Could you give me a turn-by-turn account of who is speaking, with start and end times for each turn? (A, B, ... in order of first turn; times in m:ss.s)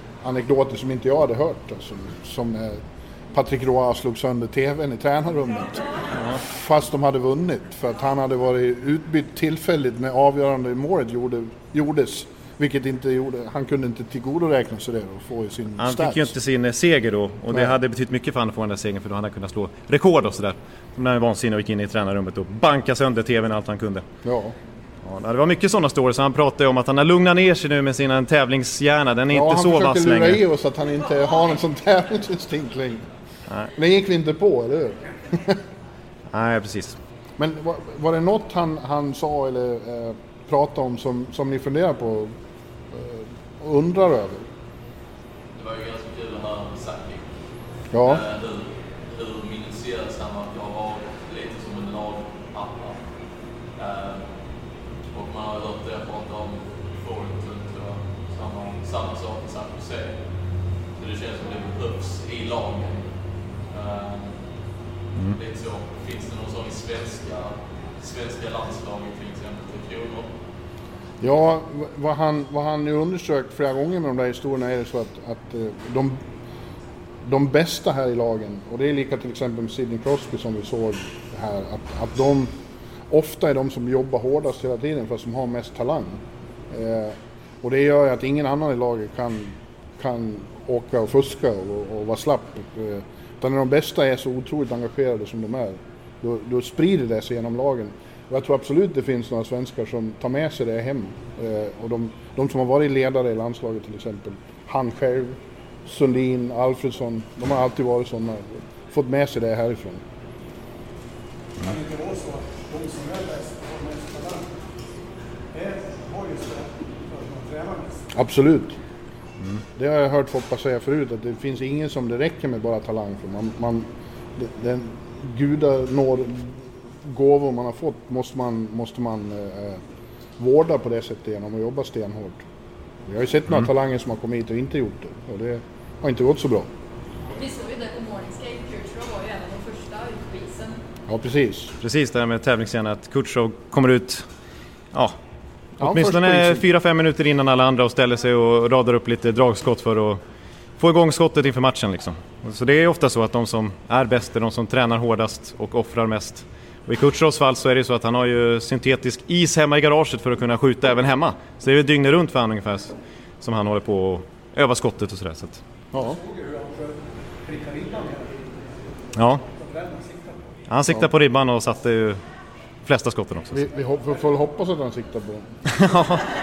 0:00.2-0:16.3 A
0:15.8-0:24.0 B
0:24.2-0:24.6 A
0:25.0-0:30.4 B
0:29.3-0:33.0 A
0:33.7-0:35.6 A
0:36.3-0:37.0 B
0:37.4-0:42.3 A
0:42.9-0:44.5 A
0:45.5-1:04.7 C
0:47.9-0:48.2 A
1:05.3-1:10.3 C
1:11.2-1:16.2 A
1:17.2-1:22.5 A
1:23.1-1:50.0 A
1:51.6-1:54.6 D
1:55.5-1:58.1 D
1:58.1-1:58.8 A
1:59.8-2:09.8 A
2:10.4-2:12.4 A
2:13.1-2:16.7 A
2:17.4-2:20.8 E
2:21.1-2:21.7 A
2:21.8-2:24.3 B
2:25.8-2:30.2 B
2:25.8-2:26.6 A
2:30.8-2:45.6 B
2:45.9-2:46.2 A
2:46.0-2:48.7 D
2:49.1-2:49.4 B
2:49.4-2:50.5 D
2:50.7-2:52.2 B
2:52.8-2:53.6 B
2:53.5-2:55.6 A
2:55.7-2:56.2 B